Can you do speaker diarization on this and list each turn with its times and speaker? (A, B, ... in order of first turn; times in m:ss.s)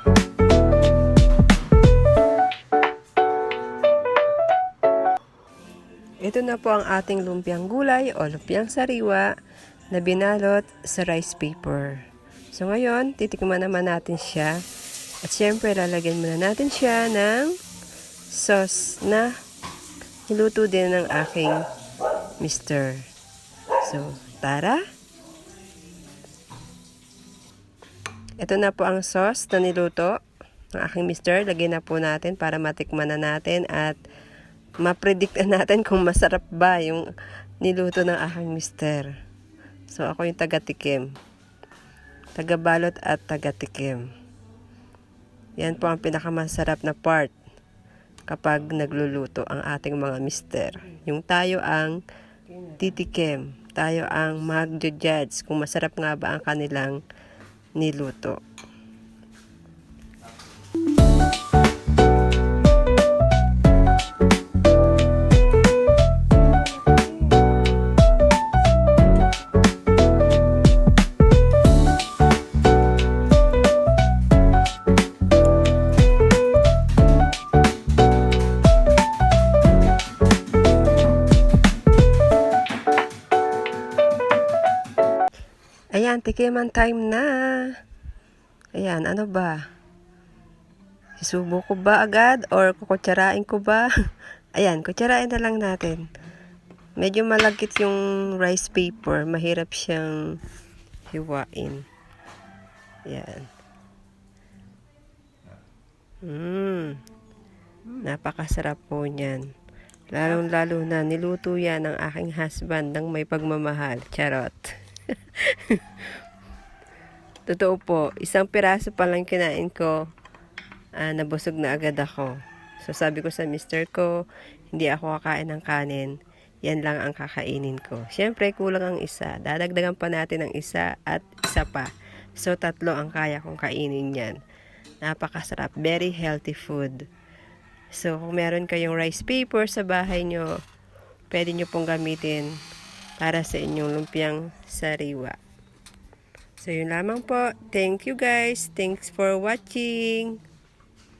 0:06.2-0:09.3 A
0:09.9-0:14.6 A
0:15.2-0:17.6 A
0:18.3-0:19.4 A
0:20.3-0:21.7 A
0:22.4-0:23.0 A
0:23.8-0:24.8 A
0:28.4-0:30.2 A
0:30.8-0:34.0 A
0:34.8-0:37.1 A
0:37.6-0:39.1 A
0:39.9-0:41.1 A
0:42.4-0:44.0 A
0:45.6-0:47.3 A
0:48.3-0:52.0 A
0:52.6-0:57.0 A
0:57.8-0:58.4 A
1:06.9-1:07.3 A
1:25.9-1:27.8 A
1:28.8-1:29.6 A
1:31.2-1:33.9 A
1:34.6-1:36.1 A
1:37.0-1:40.4 A
1:41.1-1:41.8 A
1:43.1-1:43.5 A
1:46.2-1:47.0 A
1:47.9-1:49.5 A
1:50.1-1:56.0 A
1:57.5-1:59.9 A
2:01.0-2:14.4 A
2:15.0-2:17.0 A
2:17.9-2:20.6 A
2:21.3-2:22.6 A
2:23.2-2:25.4 A
2:26.6-2:30.4 A